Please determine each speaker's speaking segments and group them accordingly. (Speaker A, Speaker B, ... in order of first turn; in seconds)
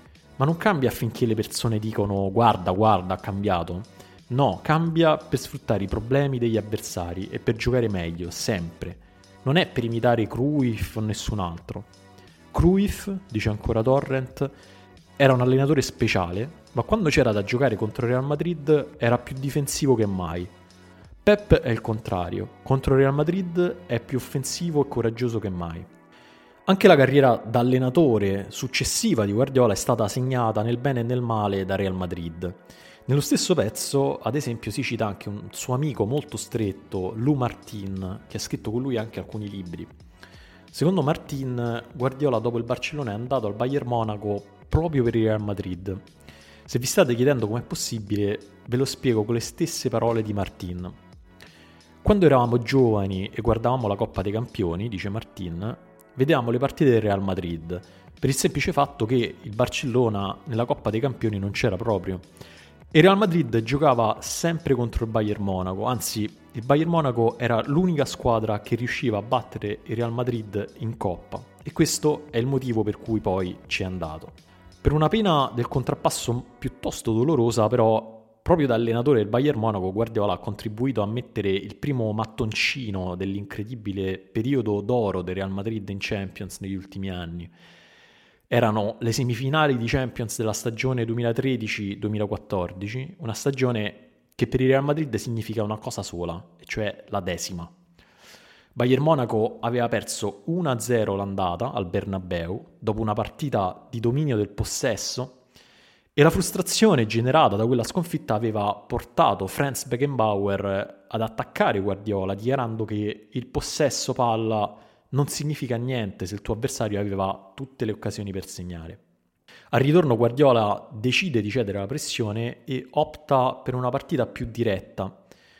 Speaker A: 0.4-11.9, 12.5-14.5, 15.2-20.5, 21.2-25.9, 26.6-39.9, 40.7-46.0, 46.6-51.0, 52.0-62.2, 62.9-87.5, 88.5-97.7, 98.8-105.4, 106.2-119.0, 119.7-125.2